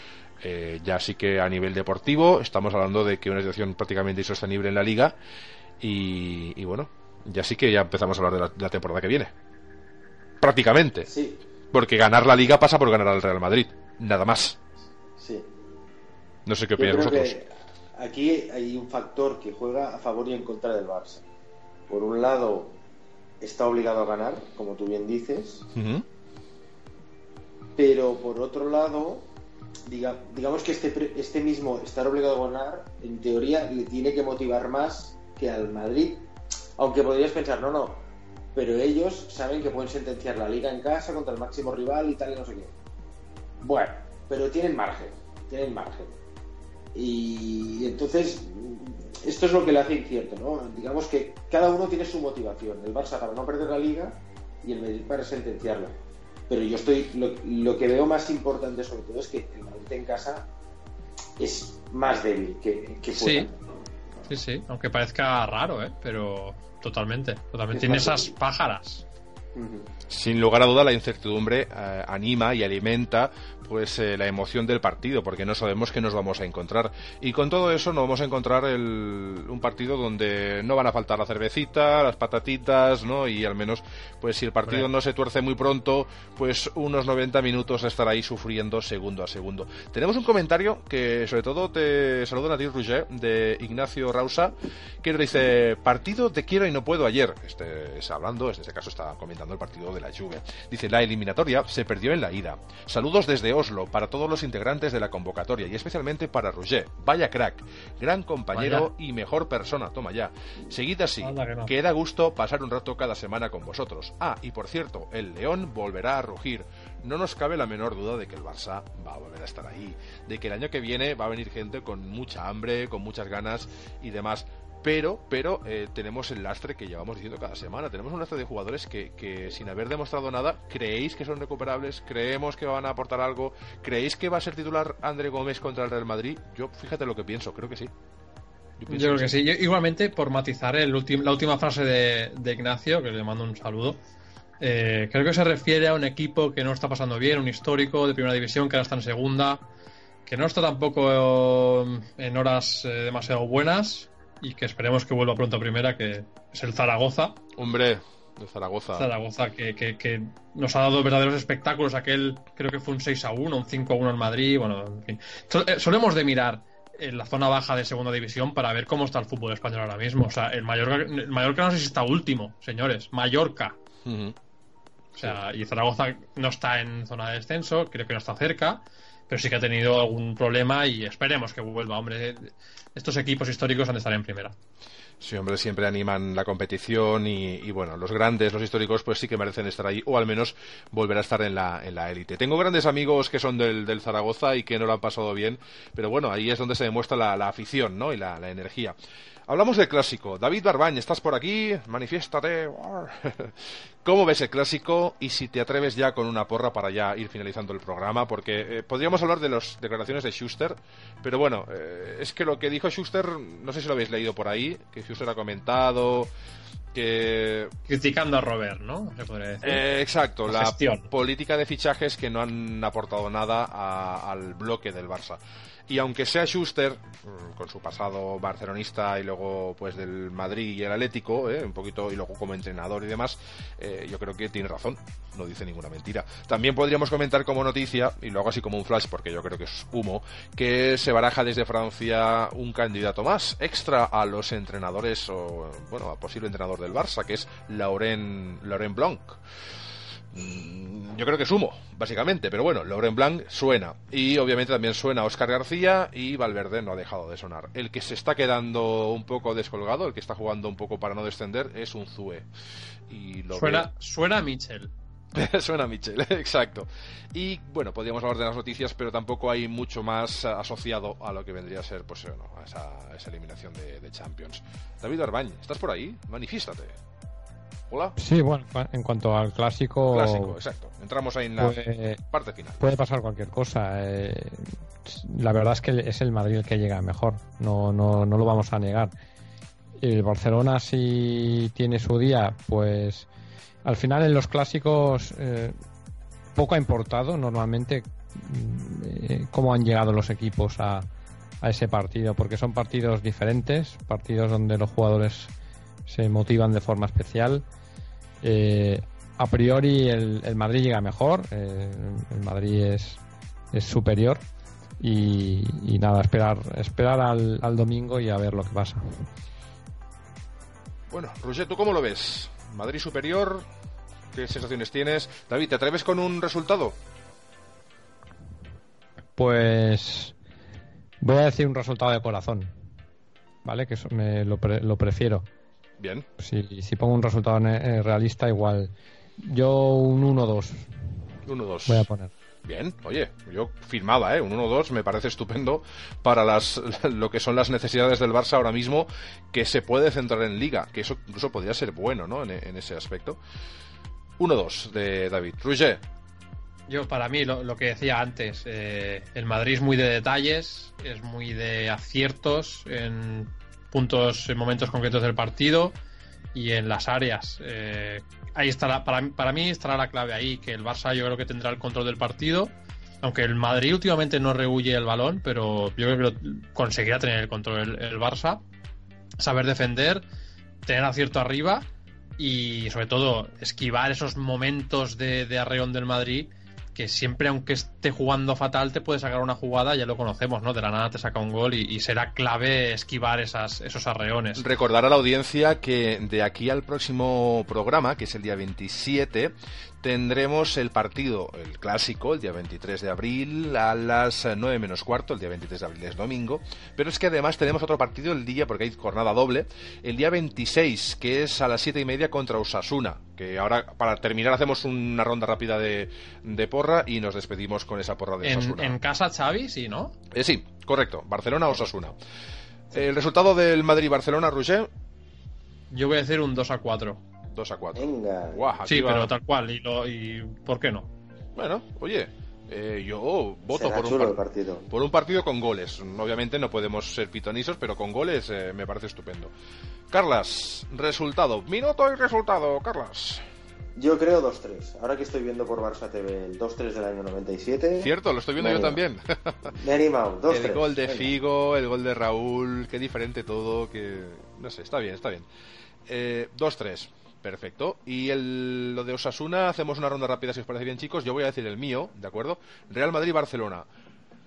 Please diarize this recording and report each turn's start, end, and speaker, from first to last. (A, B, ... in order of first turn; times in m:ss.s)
0:00.4-0:05.2 A
0:05.8-0:09.3 A
0:10.4-0:11.1 A
0:11.1-0:11.4 B
0:11.7-0:14.6 A
0:15.2-0:15.5 B
0:16.4-0:17.4 A
0:16.8-0:21.2 B
0:21.9-0:22.8 B
0:23.4-0:25.7 B
0:25.7-0:26.0 A
0:27.8-0:29.3 B
0:29.8-0:42.7 B
0:43.6-0:46.2 B
0:46.9-0:56.0 B
0:56.5-1:00.5 B
1:01.4-1:03.5 B
1:03.1-1:03.5 C
1:04.3-1:09.0 C
1:07.7-1:08.3 B
1:09.5-1:09.9 B
1:10.1-2:17.9 A
1:48.5-1:48.9 C
1:51.2-1:51.7 C
2:18.8-2:19.3 A
2:18.9-2:24.0 C
2:24.6-2:29.6 C
2:30.2-2:37.4 C
2:37.6-2:39.1 A
2:39.0-2:53.8 C
2:54.0-2:54.3 A
2:55.2-3:04.5 C
3:05.2-3:18.9 A
3:19.5-3:36.3 A
3:36.9-3:37.7 A
3:37.9-3:39.8 C
3:39.6-4:09.4 A
3:40.4-3:41.1 C
4:10.3-4:22.5 A
4:23.1-4:23.9 A
4:23.5-4:24.9 C
4:25.3-4:37.0 A
4:37.9-4:38.1 A
4:38.2-4:40.6 D
4:40.1-4:42.8 A
4:41.6-4:42.2 D
4:42.8-4:49.1 D
4:50.0-4:53.3 D
4:53.8-4:55.8 D
4:56.5-5:01.1 D
5:01.6-5:05.5 D
5:06.0-5:07.6 D
5:08.4-5:13.2 D
5:13.7-5:14.4 D
5:15.0-5:19.2 D
5:21.1-5:23.6 A
5:24.3-5:27.0 A
5:29.4-5:30.3 D
5:31.2-5:32.7 D
5:33.6-5:35.5 D
5:36.0-5:36.3 A
5:36.4-5:40.9 D
5:41.4-5:42.1 A
5:41.9-5:42.3 D
5:42.6-5:53.4 A
5:54.4-5:56.0 A
5:56.9-6:06.0 C
6:06.5-6:18.6 C
6:19.4-6:20.2 C
6:20.8-6:21.8 C
6:22.4-6:34.6 C
6:34.6-6:59.0 A
6:58.4-7:00.2 C
7:00.3-7:02.2 A
7:02.9-7:04.9 A
7:05.9-7:07.2 C
7:07.5-7:09.3 A
7:08.0-7:08.7 B
7:08.8-7:11.1 C
7:11.6-7:19.5 A
7:13.7-7:14.9 B
7:20.1-7:23.4 A
7:24.0-7:29.0 B
7:28.0-7:29.7 A
7:29.7-7:31.3 B
7:30.5-7:35.5 A
7:36.1-7:43.9 A